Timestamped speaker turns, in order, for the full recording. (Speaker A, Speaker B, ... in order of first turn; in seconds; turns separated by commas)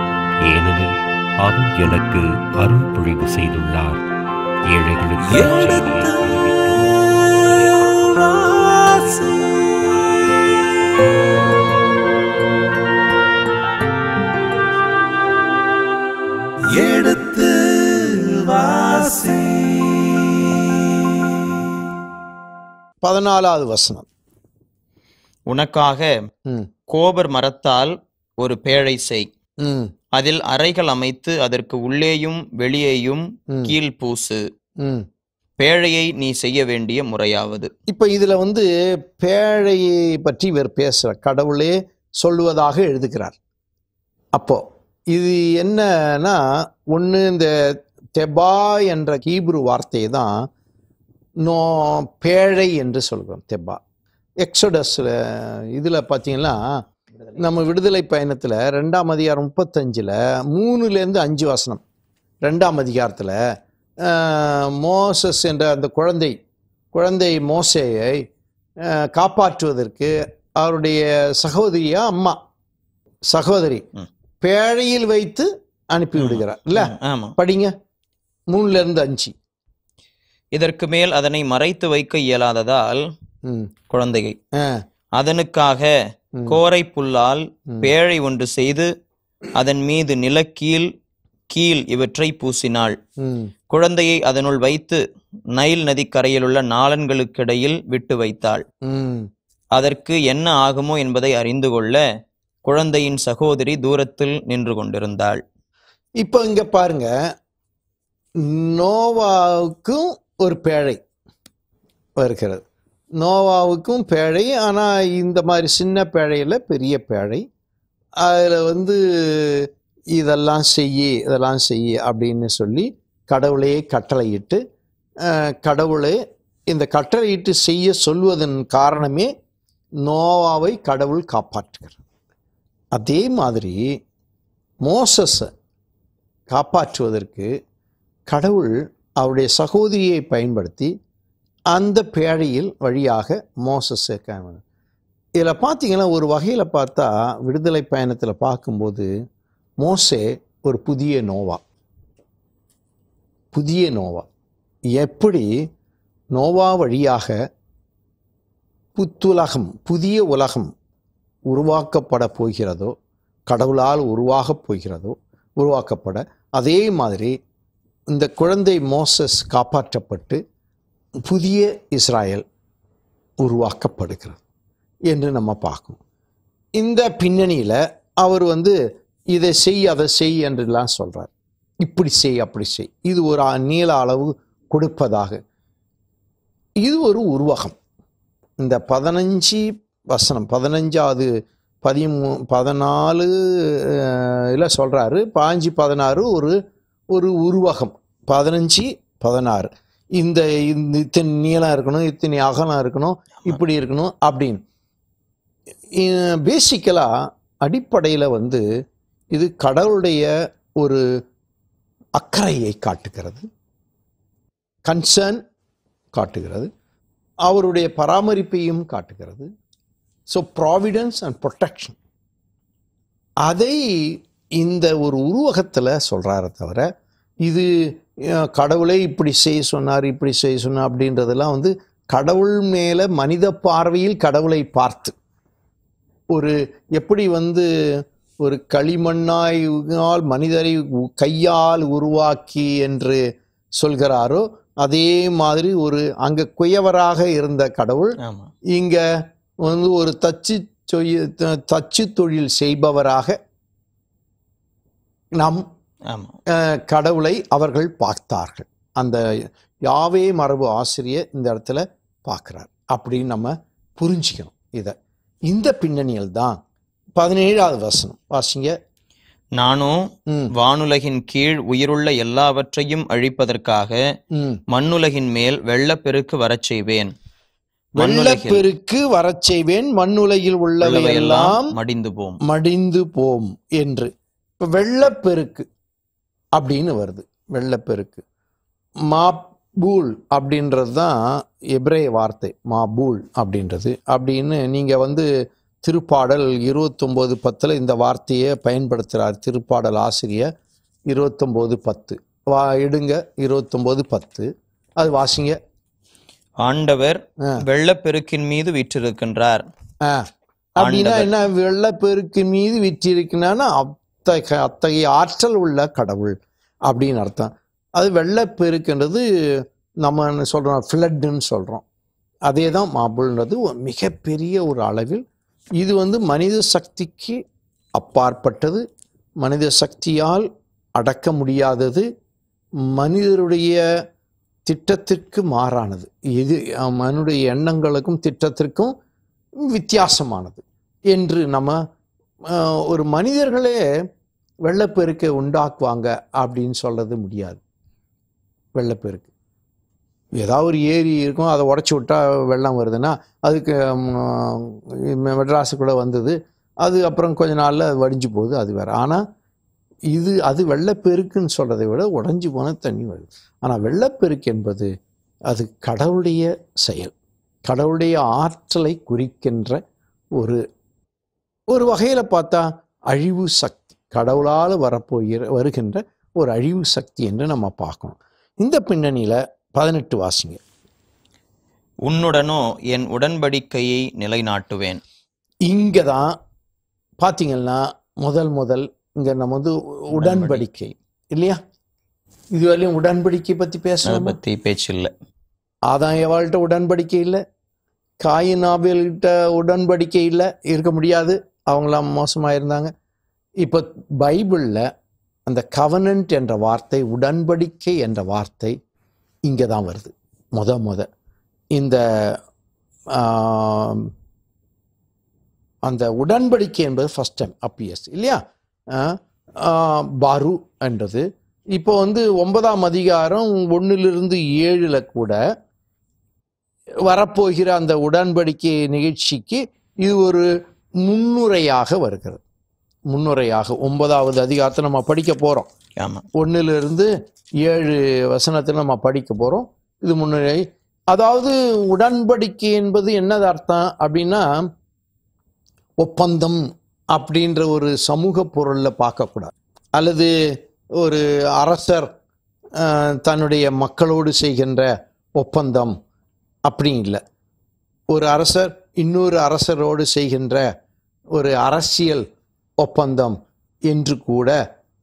Speaker A: 0.5-4.1, Speaker A: 4.7-9.3, Speaker B: 7.9-9.8, Speaker A: 9.8-10.2, Speaker B: 16.7-20.0, Speaker C: 23.0-24.1, Speaker D: 25.5-26.1, Speaker D: 26.9-29.3, Speaker C: 29.6-29.9, Speaker D: 30.1-34.4, Speaker D: 35.6-37.7, Speaker C: 37.9-43.4, Speaker C: 44.4-47.5, Speaker C: 48.2-50.3, Speaker C: 51.4-53.8, Speaker C: 54.4-56.6, Speaker C: 57.4-61.8, Speaker C: 62.4-63.4, Speaker C: 64.0-66.3, Speaker C: 66.9-68.2, Speaker C: 68.8-72.4, Speaker C: 73.3-73.8, Speaker C: 74.4-77.7, Speaker D: 76.2-77.3, Speaker C: 78.5-79.3, Speaker D: 80.5-83.0, Speaker C: 83.5-83.7, Speaker D: 83.9-84.4, Speaker D: 85.2-85.9, Speaker D: 86.5-88.9, Speaker D: 89.6-90.9, Speaker D: 91.5-93.0, Speaker C: 93.2-93.5, Speaker D: 93.7-95.0, Speaker D: 95.5-98.6, Speaker C: 98.8-99.3, Speaker D: 99.8-102.0, Speaker D: 102.7-105.4, Speaker C: 106.2-107.1, Speaker C: 108.5-111.0, Speaker C: 112.2-112.6, Speaker C: 113.2-117.4, Speaker C: 118.2-124.6, Speaker C: 125.2-126.2, Speaker C: 126.7-129.3, Speaker C: 130.0-132.0, Speaker C: 132.9-133.8, Speaker C: 134.8-135.5, Speaker C: 136.5-137.5, Speaker C: 138.3-140.9, Speaker C: 141.7-144.6, Speaker C: 145.4-149.1, Speaker C: 149.8-151.6, Speaker C: 153.5-154.3, Speaker C: 155.0-155.5, Speaker C: 156.3-157.4, Speaker C: 158.9-160.7, Speaker C: 161.5-162.9, Speaker C: 163.5-167.3, Speaker C: 168.1-170.4, Speaker C: 171.3-172.4, Speaker C: 173.4-174.4, Speaker C: 175.1-176.0, Speaker C: 176.8-178.8, Speaker C: 179.3-181.3, Speaker C: 181.8-185.4, Speaker C: 186.8-187.8, Speaker C: 188.6-191.3, Speaker C: 191.8-196.6, Speaker C: 197.1-204.6, Speaker C: 206.0-207.1, Speaker C: 207.6-208.6, Speaker C: 209.3-210.3, Speaker C: 212.2-213.4, Speaker C: 214.9-215.4, Speaker C: 216.1-216.7, Speaker C: 217.5-219.5, Speaker C: 220.3-222.0, Speaker C: 223.4-226.9, Speaker C: 228.3-235.1, Speaker C: 236.3-237.7, Speaker C: 238.4-243.2, Speaker C: 243.8-248.2, Speaker D: 248.2-248.5, Speaker C: 248.7-249.0, Speaker C: 249.6-253.3, Speaker C: 256.5-259.2, Speaker C: 259.9-264.9, Speaker C: 265.5-266.6, Speaker C: 267.2-268.7, Speaker D: 269.6-274.0, Speaker C: 274.3-274.6, Speaker D: 274.7-277.1, Speaker D: 278.0-278.7, Speaker C: 278.0-281.7, Speaker D: 280.8-282.4, Speaker C: 282.5-285.6, Speaker C: 286.6-288.2, Speaker C: 289.1-291.2, Speaker C: 291.8-295.3, Speaker C: 295.8-300.5, Speaker C: 301.1-305.6, Speaker D: 306.6-309.6, Speaker C: 310.8-316.4, Speaker D: 310.8-311.3, Speaker C: 316.9-321.8, Speaker C: 322.5-325.2, Speaker C: 325.8-327.4, Speaker C: 328.0-328.8, Speaker C: 329.4-330.5, Speaker C: 331.0-332.1, Speaker C: 332.9-333.8, Speaker C: 334.7-338.9, Speaker C: 339.7-341.8, Speaker C: 342.5-343.8, Speaker C: 344.6-347.6, Speaker C: 348.8-349.3, Speaker C: 350.4-359.2, Speaker C: 360.1-364.9, Speaker C: 365.5-367.1, Speaker C: 367.7-369.8, Speaker C: 371.7-380.6, Speaker D: 382.1-385.0, Speaker C: 385.7-386.2, Speaker C: 387.2-391.6, Speaker D: 390.2-390.6, Speaker C: 392.5-394.4, Speaker D: 394.1-395.1, Speaker C: 395.9-397.4, Speaker C: 398.2-402.9, Speaker C: 403.6-404.9, Speaker C: 405.5-408.8, Speaker C: 409.4-411.1, Speaker C: 411.7-412.4, Speaker C: 413.1-414.1, Speaker C: 415.9-418.4, Speaker C: 418.9-421.2, Speaker C: 421.8-425.4, Speaker C: 427.1-430.5, Speaker C: 431.0-432.4, Speaker C: 433.1-435.7, Speaker C: 436.4-437.1, Speaker C: 437.6-444.6, Speaker C: 446.0-446.6, Speaker C: 447.1-450.3, Speaker C: 451.0-452.1, Speaker C: 452.8-455.9, Speaker C: 456.7-457.2, Speaker C: 458.1-460.7, Speaker C: 461.3-462.2, Speaker C: 462.8-463.4, Speaker C: 463.9-464.6